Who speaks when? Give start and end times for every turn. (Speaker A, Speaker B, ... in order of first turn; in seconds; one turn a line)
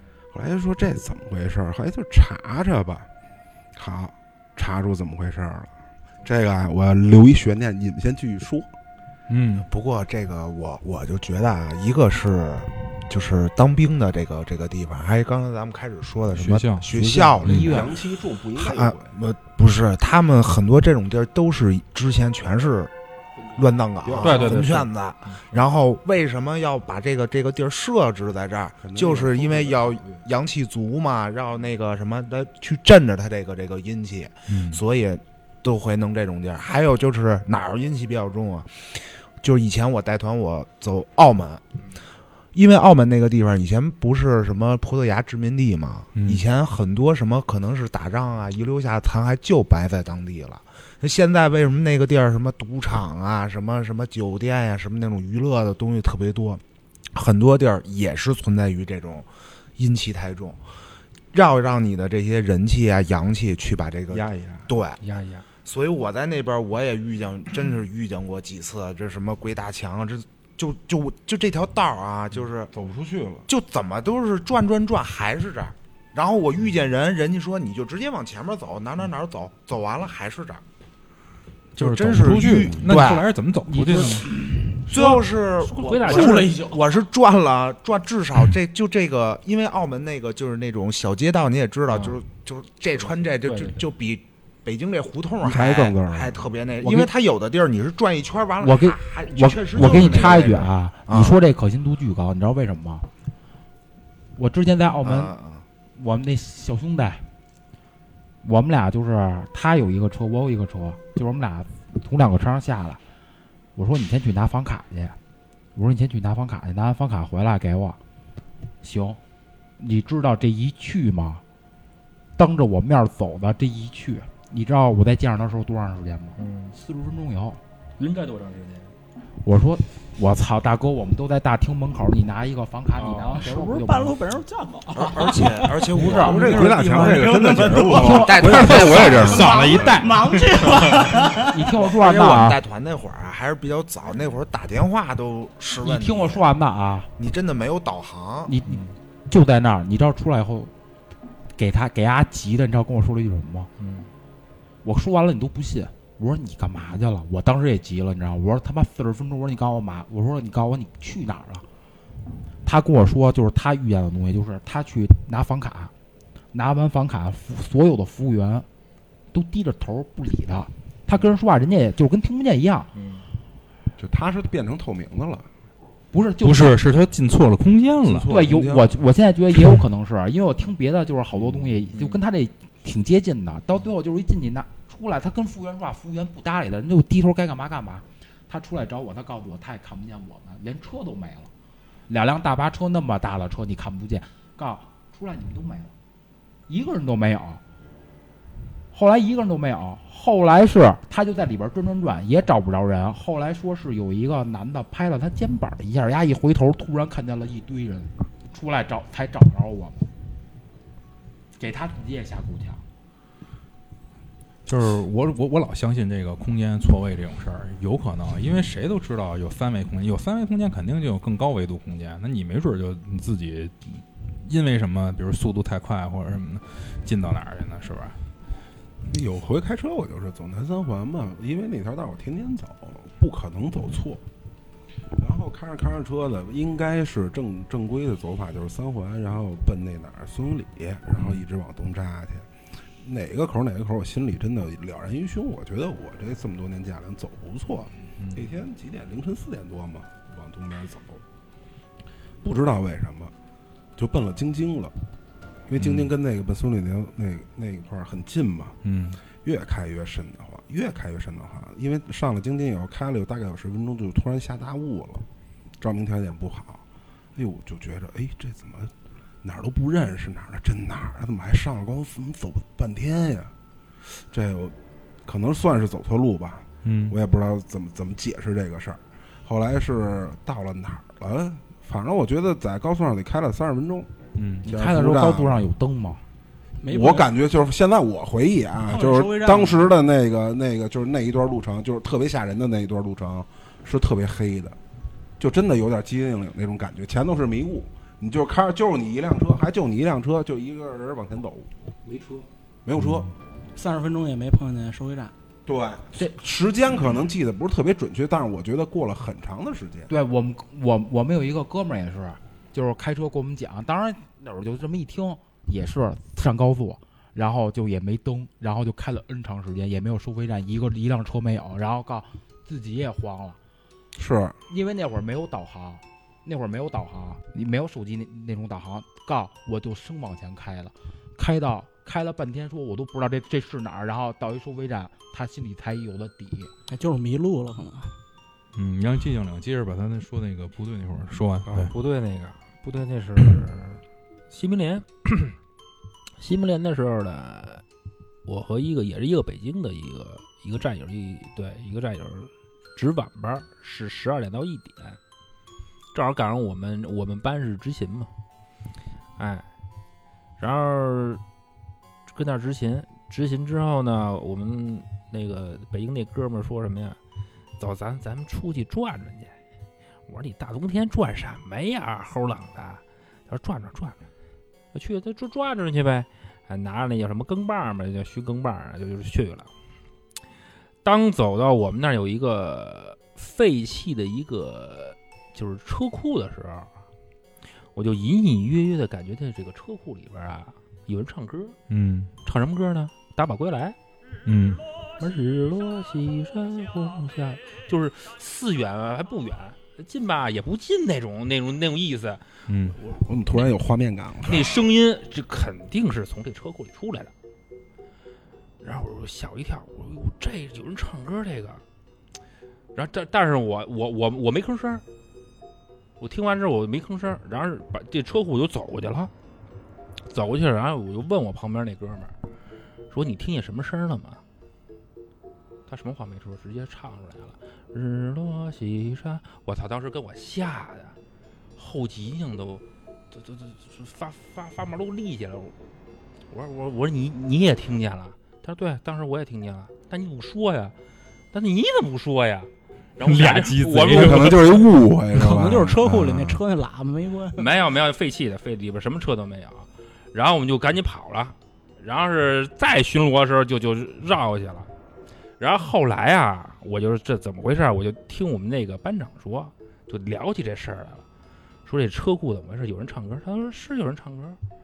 Speaker A: 0.3-3.1
Speaker A: 3.8-5.7
Speaker A: 6.2-8.7
Speaker B: 9.3-9.7
Speaker C: 9.7-18.0
Speaker B: 16.3-17.8
Speaker A: 16.9-19.2
Speaker D: 17.5-17.9
Speaker C: 18.6-22.9
Speaker C: 23.6-41.7
Speaker A: 24.0-24.5
Speaker E: 24.2-25.6
Speaker A: 28.8-30.3
Speaker B: 34.5-34.8
Speaker C: 42.5-56.6
Speaker B: 46.1-46.4
Speaker C: 57.1-60.6
Speaker C: 61.3-65.0
Speaker A: 64.1-64.7
Speaker E: 65.0-65.5
Speaker C: 65.7-72.7
Speaker A: 72.7-73.5
Speaker C: 73.5-80.6
Speaker C: 81.8-83.3
Speaker B: 81.8-84.3
Speaker D: 83.7-84.2
Speaker C: 84.8-101.4
Speaker E: 84.9-86.7
Speaker F: 86.1-86.8
Speaker E: 91.9-92.2
Speaker E: 93.0-93.8
Speaker A: 95.4-97.1
Speaker D: 98.6-103.1
Speaker D: 104.4-105.3
Speaker C: 105.0-105.7
Speaker D: 106.0-107.2
Speaker D: 108.4-113.0
Speaker D: 113.8-115.2
Speaker D: 115.8-118.0
Speaker D: 118.8-119.2
Speaker D: 119.8-121.4
Speaker D: 122.4-127.6
Speaker E: 126.4-126.8
Speaker E: 128.0-128.9
Speaker D: 129.4-134.2
Speaker E: 133.0-133.4
Speaker F: 133.3-141.7
Speaker C: 134.9-136.8
Speaker D: 135.9-137.0
Speaker A: 136.1-139.5
Speaker D: 137.9-140.1
Speaker C: 138.1-139.6
Speaker B: 138.5-140.4
Speaker D: 141.3-142.6
Speaker C: 141.8-146.4
Speaker D: 145.8-147.1
Speaker C: 147.2-148.5
Speaker D: 148.5-150.7
Speaker E: 148.7-148.9
Speaker D: 151.6-153.7
Speaker E: 153.8-154.1
Speaker D: 154.8-161.7
Speaker D: 162.6-165.9
Speaker D: 166.5-168.7
Speaker D: 169.3-172.9
Speaker E: 172.9-173.3
Speaker A: 174.0-175.5
Speaker D: 176.1-176.8
Speaker B: 176.4-178.3
Speaker A: 178.0-178.9
Speaker D: 178.3-191.5
Speaker E: 181.9-182.2
Speaker D: 192.1-195.9
Speaker D: 196.7-197.6
Speaker D: 198.9-210.1
Speaker D: 211.6-212.8
Speaker B: 214.7-228.2
Speaker A: 229.1-234.2
Speaker A: 235.2-251.2
Speaker B: 248.2-248.5
Speaker A: 252.4-253.3
Speaker A: 254.0-254.9
Speaker A: 255.7-258.8
Speaker B: 255.8-256.1
Speaker B: 258.8-259.2
Speaker A: 259.3-265.3
Speaker A: 265.8-266.8
Speaker A: 267.4-273.5
Speaker A: 274.1-285.6
Speaker B: 276.8-277.2
Speaker B: 284.4-284.7
Speaker D: 284.6-286.2
Speaker F: 286.8-287.3
Speaker A: 286.9-294.8
Speaker F: 288.9-289.8
Speaker A: 295.4-301.7
Speaker A: 302.9-303.3
Speaker B: 303.0-303.3
Speaker F: 303.7-305.3
Speaker A: 305.7-310.1
Speaker D: 310.1-323.6
Speaker A: 324.1-324.6
Speaker D: 324.7-336.7
Speaker F: 336.9-338.2
Speaker B: 338.8-341.9
Speaker E: 341.7-345.6
Speaker E: 346.4-347.8
Speaker E: 348.4-355.2
Speaker E: 356.1-358.3
Speaker E: 359.4-359.7
Speaker E: 360.6-361.4
Speaker E: 362.3-367.2
Speaker E: 367.8-369.6
Speaker E: 370.3-374.3
Speaker E: 374.9-379.7
Speaker E: 381.0-386.9
Speaker E: 387.9-391.8
Speaker B: 391.9-392.3
Speaker E: 392.4-394.0
Speaker B: 394.5-394.8
Speaker E: 395.2-402.5
Speaker B: 402.7-403.0
Speaker A: 403.0-404.8
Speaker E: 404.4-407.3
Speaker E: 408.8-411.8
Speaker E: 412.9-415.0
Speaker E: 416.2-419.3
Speaker E: 420.3-422.4
Speaker E: 423.1-424.4
Speaker E: 425.9-431.2
Speaker E: 431.8-435.8
Speaker E: 436.5-441.0
Speaker E: 441.5-444.8
Speaker B: 443.2-444.6
Speaker A: 444.1-446.6
Speaker F: 445.3-447.8
Speaker E: 447.6-454.9
Speaker E: 455.6-461.2
Speaker E: 461.9-464.6